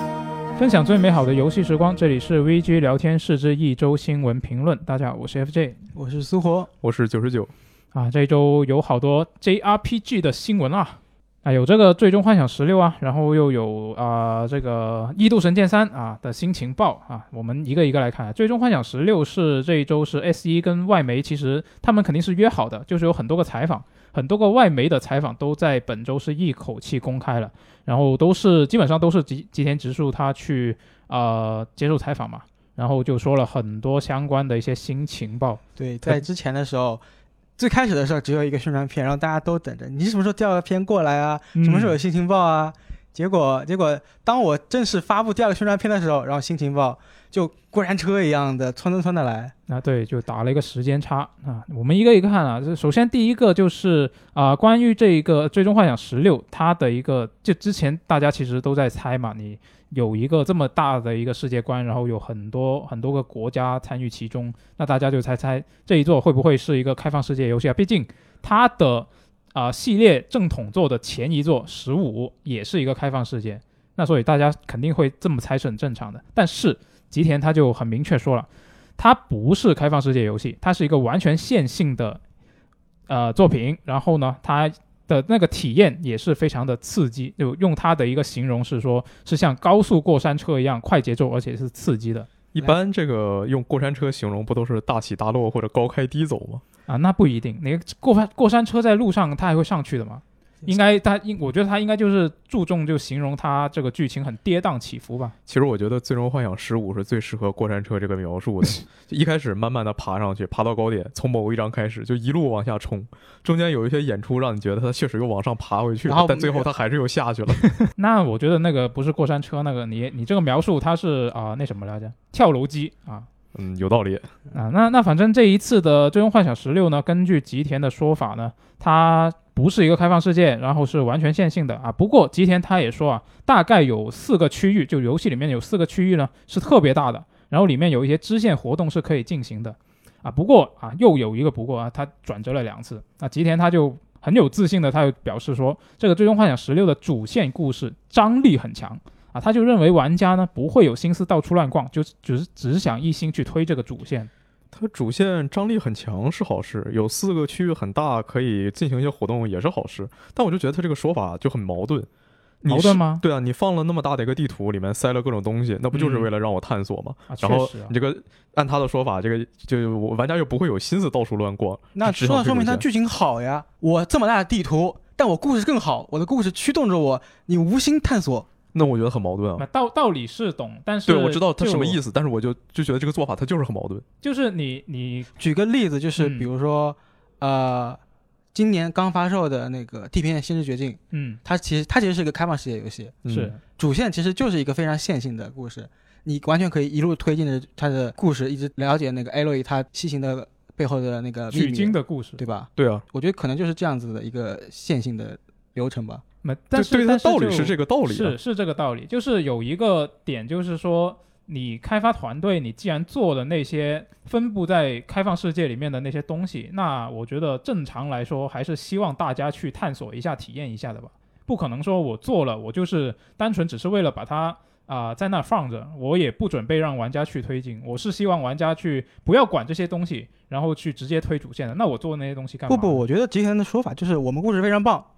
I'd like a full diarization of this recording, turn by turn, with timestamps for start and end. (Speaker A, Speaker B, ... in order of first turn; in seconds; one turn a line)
Speaker A: 0.6-5.8
Speaker B: 5.9-6.7
Speaker C: 6.8-7.5
Speaker A: 7.9-36.1
Speaker B: 35.8-37.0
Speaker B: 37.6-49.5
Speaker A: 41.5-42.0
Speaker A: 49.7-78.5
Speaker A: 79.0-82.2
Speaker A: 83.1-92.3
Speaker C: 92.5-96.6
Speaker A: 96.9-105.3
Speaker C: 105.5-117.7
Speaker B: 116.0-116.7
Speaker A: 117.9-123.3
Speaker C: 123.5-124.3
Speaker A: 124.5-154.3
Speaker C: 154.7-162.1
Speaker C: 162.6-172.8
Speaker A: 162.7-163.2
Speaker A: 165.9-166.3
Speaker A: 167.3-167.9
Speaker B: 171.9-178.5
Speaker C: 178.7-179.7
Speaker A: 179.6-182.0
Speaker C: 181.1-184.0
Speaker A: 184.2-185.3
Speaker B: 185.4-188.0
Speaker A: 186.2-186.5
Speaker B: 188.5-193.2
Speaker A: 191.1-191.4
Speaker C: 193.2-193.5
Speaker A: 193.3-193.6
Speaker B: 193.8-206.2
Speaker A: 201.5-202.4
Speaker C: 202.8-203.0
Speaker A: 206.4-233.0
Speaker C: 206.7-208.3
Speaker B: 232.7-235.1